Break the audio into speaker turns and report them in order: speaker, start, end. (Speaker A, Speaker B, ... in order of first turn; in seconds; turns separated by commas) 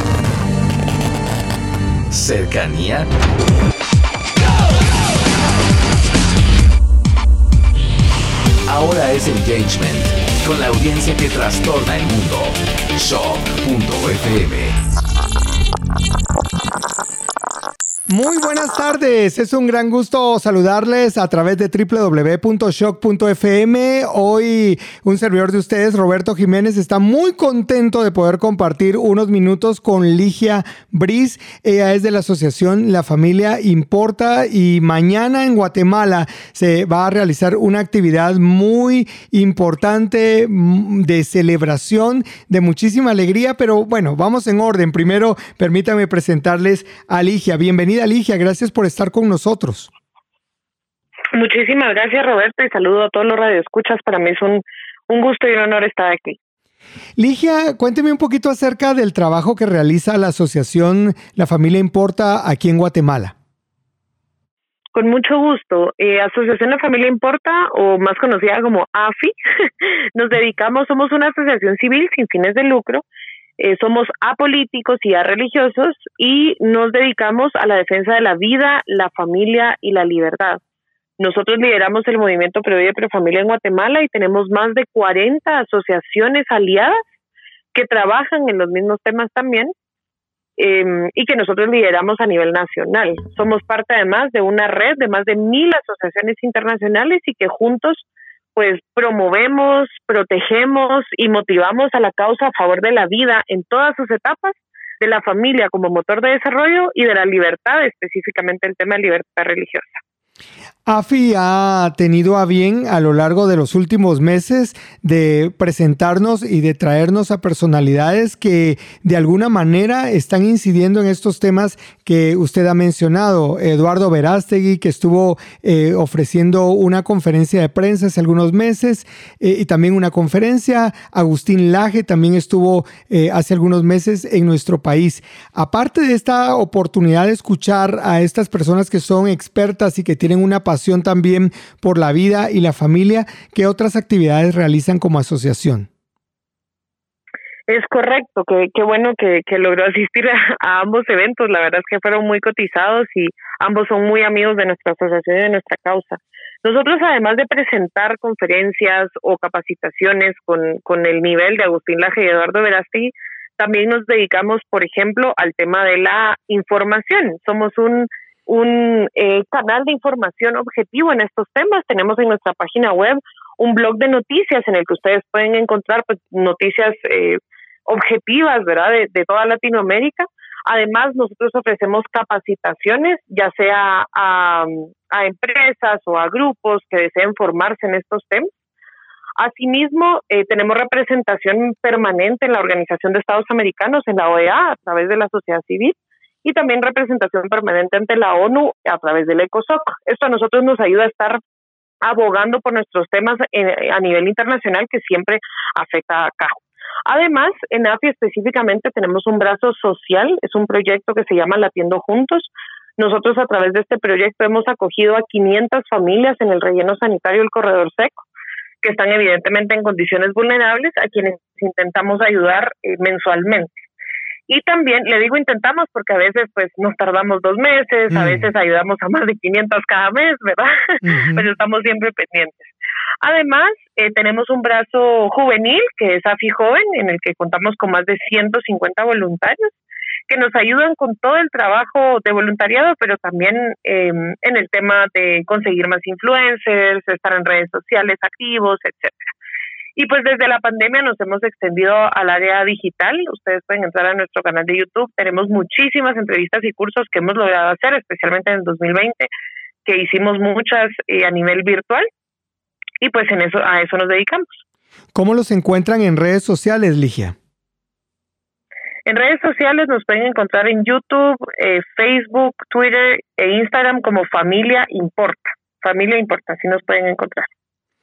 Speaker A: 2.1-3.1, Speaker A: 8.7-14.8, Speaker B: 18.1-49.9, Speaker C: 51.3-56.4, Speaker B: 57.2-63.3, Speaker C: 65.0-73.0, Speaker C: 73.6-80.6, Speaker C: 81.2-87.0, Speaker C: 87.7-89.7, Speaker C: 90.6-98.0, Speaker C: 98.6-110.0, Speaker B: 110.9-145.9, Speaker C: 147.7-188.6, Speaker C: 189.4-201.4, Speaker C: 202.0-218.2, Speaker C: 218.8-223.9, Speaker C: 224.5-232.7, Speaker B: 228.1-228.5, Speaker B: 231.0-231.5, Speaker C: 233.2-239.8, Speaker C: 240.3-249.3, Speaker C: 250.0-259.3, Speaker C: 259.9-262.1, Speaker C: 263.0-264.6, Speaker B: 265.1-267.4, Speaker C: 269.1-277.5